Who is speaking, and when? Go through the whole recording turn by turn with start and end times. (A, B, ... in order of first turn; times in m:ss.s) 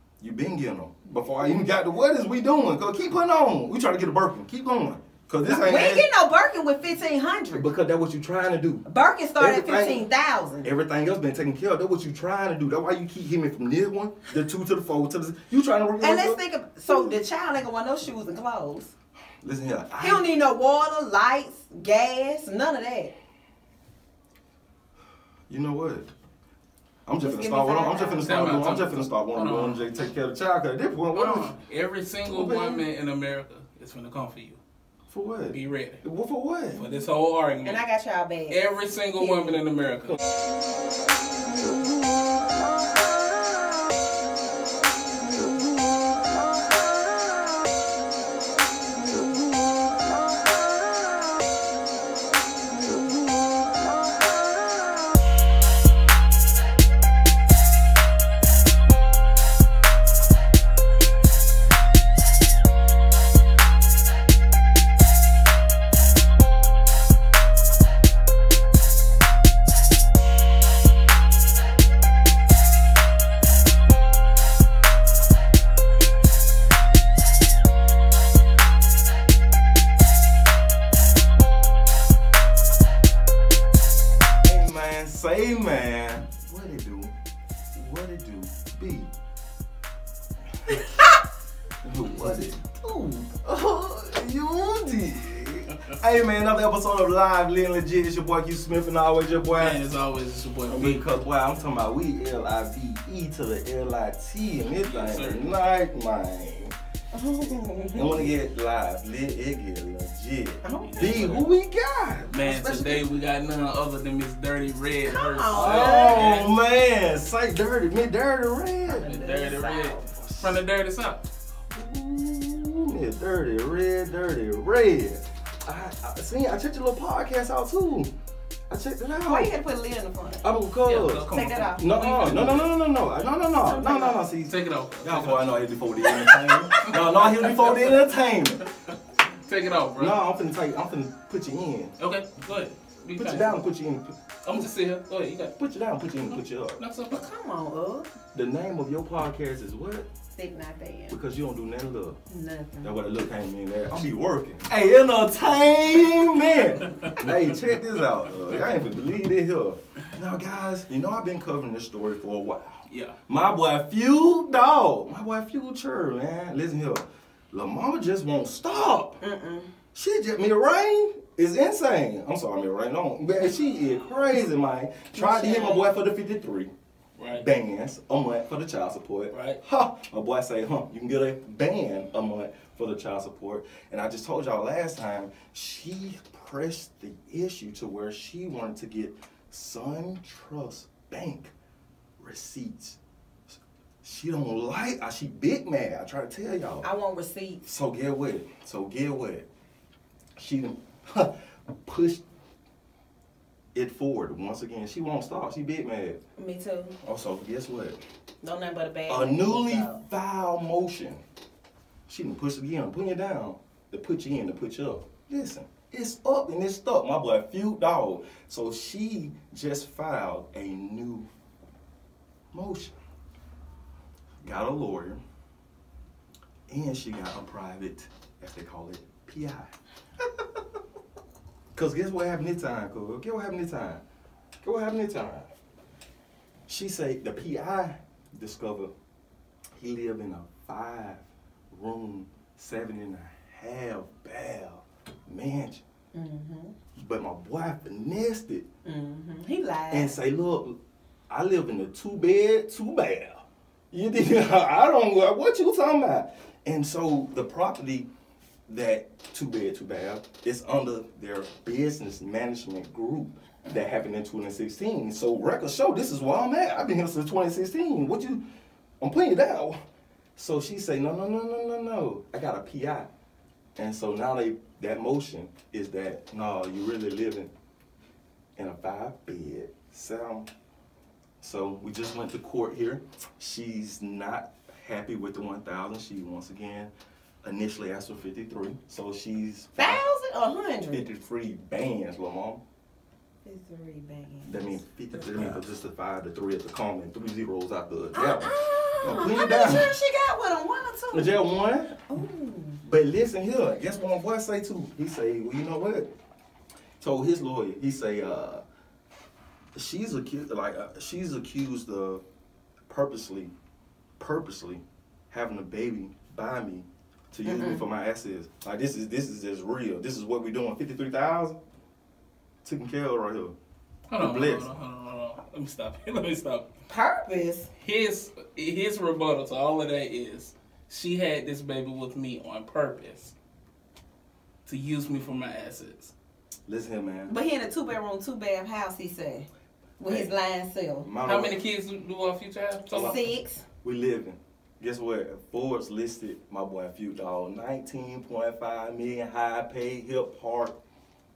0:00.2-0:06.0 A
0:05.4-0:07.7 B
0:07.5-0:08.8 A
0:08.8-0:10.7 B
0:09.4-0:10.0 A
0:10.6-0:16.4 A
0:16.0-0:18.9 B
0:19.4-0:20.2 A
0:20.0-0:23.1 B
0:25.5-0:26.1 A
0:27.0-0:31.5 A
0:27.2-0:28.3 B
0:28.2-0:29.8 C
0:31.2-0:34.6 C
0:32.3-0:32.8 A
0:35.1-0:36.8 A
0:35.5-0:36.0 C
0:36.7-0:37.8 C
0:37.6-0:38.6 B
0:38.5-0:40.2 C
0:39.2-0:39.6 B
1:24.4-1:27.1 A
1:27.8-1:29.1 A
1:31.8-1:39.8 A
1:39.6-1:41.0 C
1:40.7-1:46.8 A
1:44.8-1:45.5 C
1:47.1-1:48.3 B
1:47.9-1:53.0 A
1:50.6-1:51.0 B
1:50.8-1:51.5 C
1:52.3-1:56.5 C
1:55.0-1:56.4 B
1:55.5-1:59.1 A
1:58.9-2:00.1 B
1:59.0-2:01.2 C
2:00.2-2:00.6 A
2:01.7-2:08.1 A
2:08.7-2:09.5 A
2:09.3-2:10.4 B
2:10.4-2:11.3 A
2:10.8-2:12.7 C
2:11.3-2:11.8 B
2:11.8-2:18.7 A
2:13.6-2:14.2 B
2:14.5-2:18.0 C
2:19.4-2:20.2 C
2:20.0-2:21.9 A
2:22.0-2:23.6 C
2:23.1-2:24.2 A
2:24.4-2:25.5 C
2:25.6-2:26.8 A
2:26.3-2:27.2 C
2:27.1-2:28.1 B
2:28.3-2:30.1 A
2:30.4-2:31.2 B
2:31.1-2:32.2 A
2:32.3-2:32.9 B
2:32.8-2:49.2 A
2:42.9-2:43.1 C
2:49.2-2:49.7 B
2:49.9-2:56.7 A
2:55.1-2:55.9 B
2:57.2-2:57.4 C
2:57.3-3:11.5 A
2:59.3-2:59.6 C
3:12.2-3:16.9 A
3:16.8-3:17.7 B
3:17.7-3:19.4 A
3:20.4-3:21.3 A
3:21.8-3:22.2 A
3:23.8-3:26.2 A
3:26.4-3:27.0 B
3:27.0-3:28.0 A
3:28.4-3:30.0 B
3:29.1-3:31.2 A
3:32.1-3:41.3 A
3:42.5-3:43.0 A
3:44.4-3:45.2 A
3:46.7-3:49.7 A
3:51.7-3:54.0 A
3:54.6-3:55.5 A
3:56.7-3:58.9 A
3:59.8-4:05.8 A
4:06.1-4:06.8 B
4:07.0-4:08.6 A
4:08.8-4:10.1 B
4:09.9-4:10.8 A
4:11.3-4:18.1 A
4:18.7-4:28.4 A
4:29.0-4:29.8 A
4:30.4-4:33.1 A
4:33.8-4:37.5 A
4:38.6-4:40.5 A
4:41.4-4:46.9 A
4:47.4-4:50.0 A
4:49.8-4:51.0 B
4:50.9-4:52.6 A
4:53.4-4:55.2 B
4:54.4-4:59.9 A
4:58.1-5:01.4 B
5:01.1-5:02.0 A
5:02.1-5:02.8 B
5:02.8-5:06.1 A
5:07.0-5:08.6 A
5:09.8-5:12.2 A
5:12.9-5:13.5 A
5:14.2-5:21.6 A
5:17.4-5:17.8 B
5:22.6-5:23.6 A
5:24.1-5:26.6 C
5:24.2-5:24.7 A
5:26.9-5:27.7 B
5:27.8-5:33.3 C
5:34.6-5:36.1 C
5:36.7-5:37.3 A
5:37.3-5:39.5 B
5:40.0-5:41.1 B
5:40.1-5:40.3 A
5:41.0-5:41.6 A
5:41.2-5:43.2 C
5:42.9-5:43.3 A
5:42.9-5:43.6 B
5:43.8-5:50.8 A